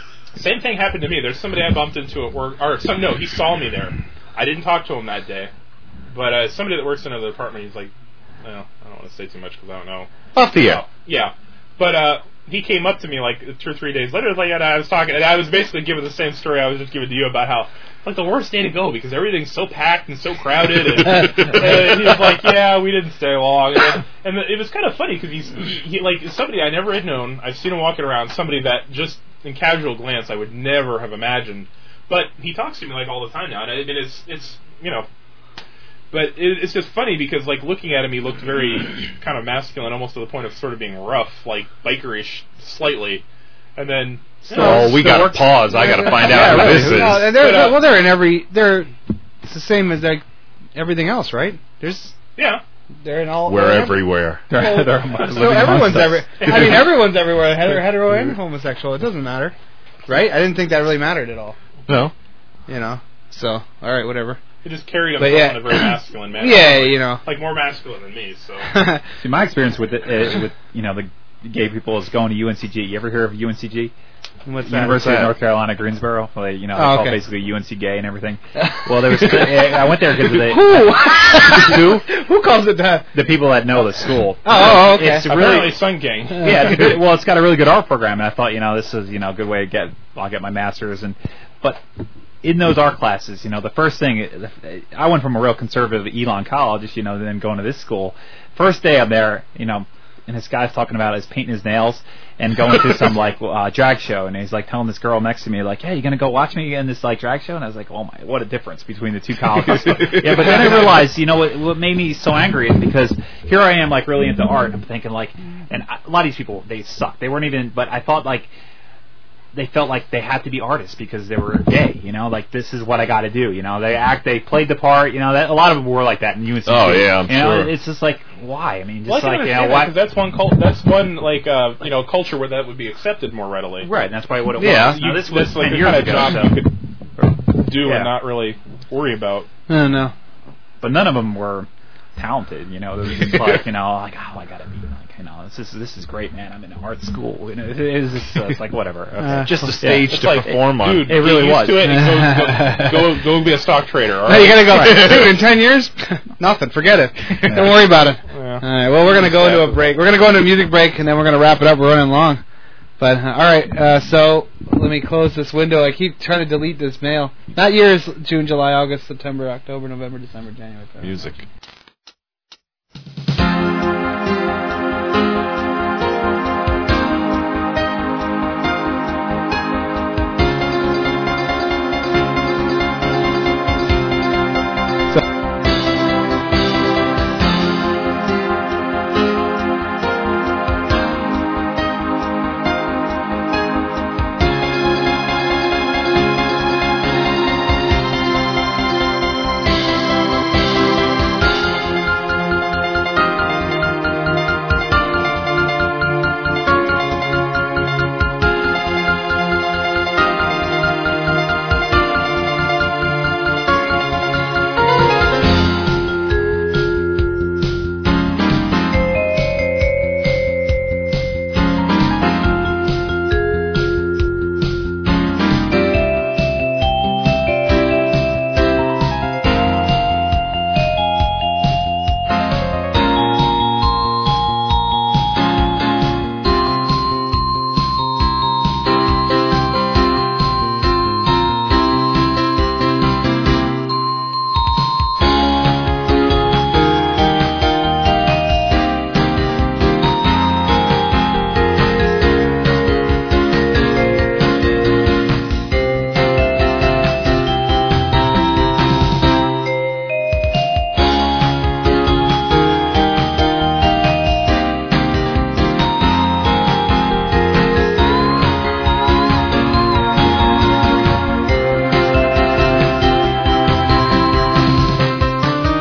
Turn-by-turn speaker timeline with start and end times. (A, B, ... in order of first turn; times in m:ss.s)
0:00.4-0:05.5 A
0:06.1-0:07.9 A
0:08.4-0:35.1 A
0:10.3-0:10.8 B
0:36.1-0:43.2 A
0:43.8-0:45.4 A
0:44.5-0:47.4 B
0:44.5-0:48.9 C
0:44.8-0:47.2 D
0:47.2-0:47.9 A
0:49.4-0:50.2 C
0:50.8-0:52.1 C
0:52.4-0:52.6 A
0:53.0-0:54.0 C
0:53.5-0:54.4 B
0:54.5-0:56.8 D
0:54.5-0:59.6 C
0:55.2-0:55.6 A
0:56.4-0:56.9 A
1:00.1-1:01.6 C
1:01.9-1:02.1 B
1:02.7-1:04.4 C
1:04.6-1:08.7 A
1:05.2-1:07.2 C
1:08.7-1:09.0 C
1:09.2-1:13.9 D
1:14.5-1:15.3 C
1:14.7-1:22.0 D
1:16.8-1:17.2 C
1:18.6-1:23.1 C
1:23.1-1:25.8 D
1:24.4-1:25.4 C
1:25.3-1:26.9 A
1:26.4-1:31.8 D
1:26.4-1:26.8 C
1:32.4-1:58.5 D
1:59.5-2:10.0 D
2:06.7-2:07.7 B
2:09.1-2:13.9 A
2:13.8-2:18.1 D
2:14.6-2:16.5 B
2:14.7-2:16.7 A
2:17.5-2:19.5 A
2:19.7-2:20.1 C
2:20.8-2:32.0 D
2:29.2-2:29.5 C
2:29.4-2:31.2 B
2:30.1-2:35.1 A
2:31.8-2:33.2 C
2:34.3-2:42.4 C
2:34.8-2:35.4 B
2:37.4-2:37.8 D
2:38.3-2:40.0 A
2:43.0-2:51.1 C
2:51.0-2:51.4 B